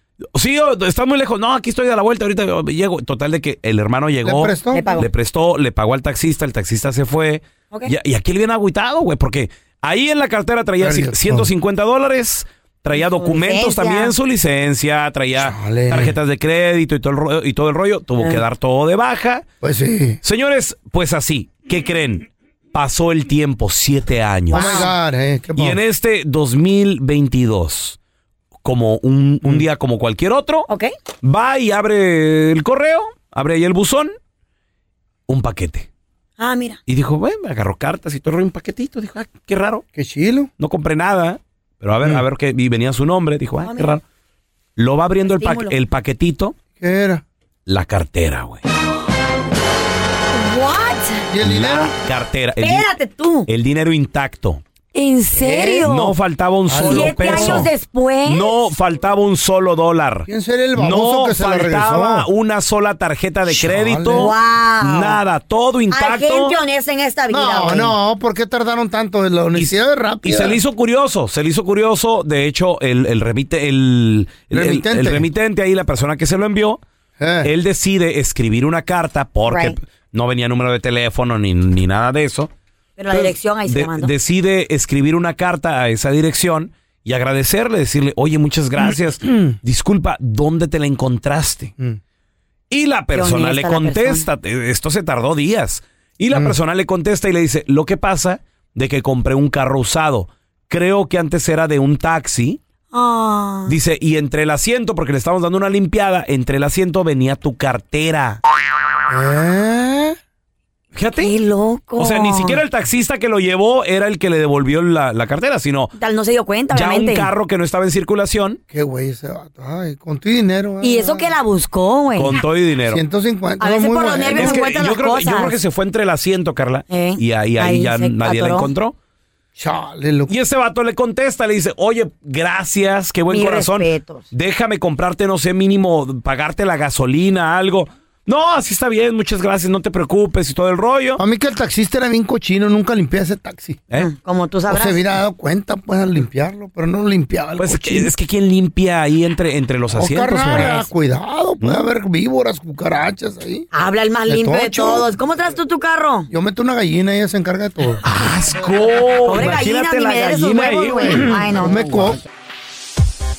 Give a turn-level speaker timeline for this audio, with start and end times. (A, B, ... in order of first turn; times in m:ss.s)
0:00.3-0:19.5 A
0:04.2-0:04.9 B
0:04.7-0:05.1 C
0:10.8-0:11.5 B
0:12.9-0:14.1 C
0:15.4-0:16.1 B
0:19.6-0:20.2 B
0:20.2-0:24.9 A
0:24.5-0:24.9 C
0:24.5-0:25.8 B
0:25.6-0:28.0 A
0:28.6-0:30.7 A
0:31.2-0:34.1 A
0:35.3-0:35.9 A
0:36.4-0:36.8 C
0:36.9-0:39.8 A
0:39.9-0:40.5 B
0:40.6-0:44.0 A
0:43.6-0:43.9 C
0:44.8-0:46.6 A
0:45.2-0:45.7 C
0:46.8-0:47.2 B
0:47.6-0:48.6 A
0:50.3-0:51.3 C
0:51.3-0:51.9 B
0:51.4-0:52.9 A
0:52.6-0:53.5 C
0:53.5-0:54.6 A
0:54.9-0:56.1 C
0:55.3-0:55.8 B
0:55.8-0:57.7 A
0:56.7-0:57.7 B
0:56.8-0:58.7 C
0:58.2-1:06.6 A
1:00.3-1:02.3 B
1:03.4-1:04.3 B
1:04.1-1:05.2 C
1:05.9-1:07.9 C
1:07.3-1:10.6 B
1:09.5-1:16.8 A
1:14.5-1:15.3 B
1:17.2-1:17.5 B
1:17.4-1:22.5 A
1:19.5-1:19.8 C
1:23.0-1:24.1 C
1:23.1-1:31.7 A
1:29.2-1:29.6 B
1:32.7-1:42.6 A
1:33.1-1:34.3 C
1:42.9-1:43.7 C
1:43.7-1:48.4 A
1:49.1-1:50.2 B
1:50.9-1:51.3 A
1:51.2-1:52.6 C
1:52.0-1:55.9 A
1:56.0-1:57.3 C
1:56.7-1:58.6 A
1:58.7-2:01.3 B
2:00.8-2:02.4 C
2:02.1-2:03.0 A
2:02.8-2:04.6 B
2:03.6-2:05.6 C
2:04.2-2:08.9 A
2:06.9-2:08.7 C
2:09.6-2:10.3 B
2:10.3-2:21.2 A
2:13.3-2:14.3 C
2:21.2-2:23.8 B
2:24.0-2:25.0 C
2:24.7-2:28.1 B
2:27.6-2:30.8 A
2:29.9-2:33.7 B
2:30.4-2:30.8 C
2:31.6-2:31.9 A
2:33.7-2:36.3 C
2:34.3-2:35.1 B
2:36.3-2:38.0 B
2:38.0-2:42.2 A
2:39.3-2:42.0 C
2:41.0-2:42.2 B